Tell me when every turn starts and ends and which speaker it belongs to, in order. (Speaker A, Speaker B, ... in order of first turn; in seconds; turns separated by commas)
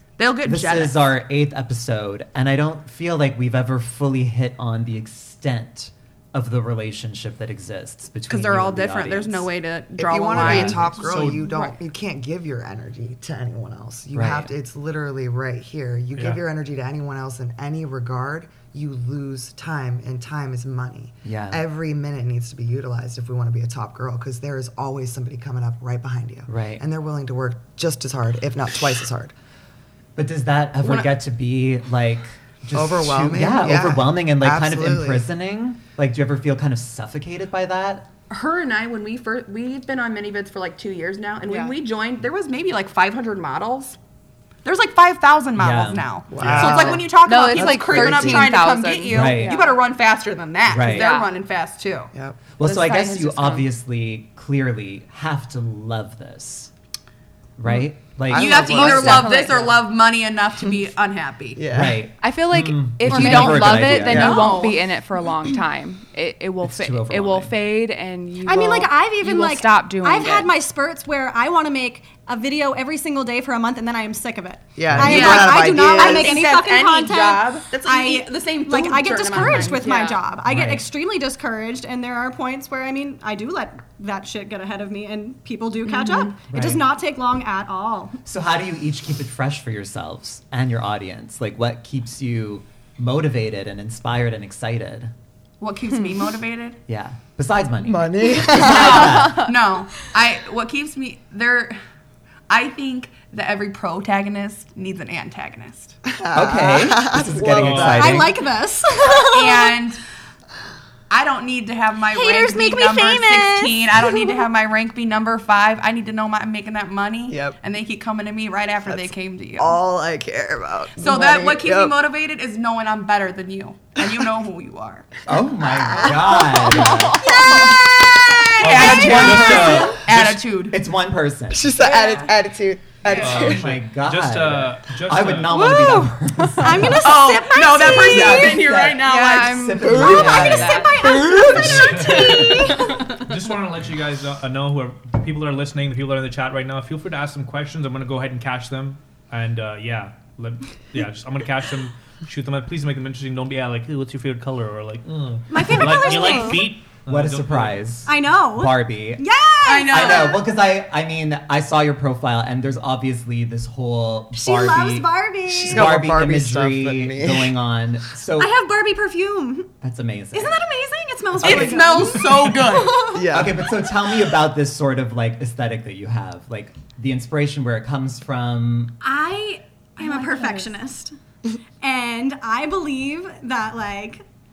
Speaker A: 0.2-1.1, Speaker B: 0.4-9.5, Speaker A: 8.3-11.8, Speaker C: 10.0-29.3, Speaker B: 10.4-10.9, Speaker D: 10.4-11.5, Speaker B: 14.1-14.5, Speaker D: 16.1-16.4, Speaker B: 21.2-21.6, Speaker B: 26.5-26.8, Speaker B: 30.2-38.1, Speaker A: 30.8-31.1, Speaker C: 32.7-35.3, Speaker A: 38.3-44.0, Speaker E: 41.5-41.8, Speaker A: 44.6-52.1, Speaker B: 45.6-46.9, Speaker C: 46.3-48.6, Speaker D: 46.4-46.9, Speaker E: 47.0-49.8, Speaker B: 49.1-49.6, Speaker B: 50.7-51.1, Speaker E: 50.8-51.3, Speaker C: 52.1-52.4, Speaker B: 52.6-56.7, Speaker E: 52.6-53.7, Speaker B: 57.6-59.5, Speaker C: 58.3-59.7, Speaker A: 58.3-61.6, Speaker E: 58.7-59.6, Speaker C: 61.6-62.0, Speaker B: 61.7-64.4, Speaker E: 62.2-70.5, Speaker F: 63.1-64.0, Speaker A: 63.1-64.8, Speaker C: 64.1-64.4, Speaker B: 66.6-67.5, Speaker F: 68.5-88.2, Speaker C: 74.8-76.4, Speaker B: 74.9-75.4, Speaker A: 75.0-80.2, Speaker B: 80.5-80.9, Speaker A: 85.9-86.4, Speaker B: 86.5-86.9, Speaker B: 88.2-95.1, Speaker A: 95.6-96.8, Speaker B: 96.9-99.5, Speaker C: 97.8-99.3, Speaker A: 98.6-101.8, Speaker A: 102.5-106.0, Speaker C: 106.1-108.3, Speaker B: 106.3-108.4, Speaker D: 107.5-108.2, Speaker F: 107.7-109.8, Speaker A: 109.2-110.0, Speaker A: 111.1-119.8, Speaker F: 112.1-114.4, Speaker C: 117.3-117.6, Speaker C: 118.9-122.0, Speaker A: 121.0-125.1, Speaker B: 125.3-127.3, Speaker C: 125.8-126.2, Speaker A: 126.7-130.8, Speaker F: 127.2-127.9, Speaker D: 128.6-130.4, Speaker B: 128.6-130.1, Speaker B: 130.7-131.8, Speaker C: 131.5-133.7, Speaker A: 131.8-132.3, Speaker A: 133.1-133.4, Speaker D: 133.1-135.6, Speaker B: 133.2-137.2, Speaker F: 135.5-138.8, Speaker A: 137.0-139.8, Speaker B: 137.8-142.6, Speaker E: 139.0-141.1, Speaker C: 139.8-141.6, Speaker F: 140.0-143.2, Speaker D: 141.5-157.8, Speaker F: 155.5-156.7, Speaker B: 157.1-159.3, Speaker F: 158.1-160.4, Speaker A: 159.7-160.4, Speaker B: 159.9-168.6, Speaker F: 164.3-165.9, Speaker C: 165.5-167.5, Speaker F: 168.4-169.7, Speaker B: 169.8-170.6, Speaker F: 170.3-173.4, Speaker A: 171.4-173.2, Speaker B: 171.4-171.9, Speaker C: 173.1-173.7, Speaker B: 173.3-178.9, Speaker F: 179.0-181.1, Speaker E: 180.0-180.6, Speaker F: 181.8-184.2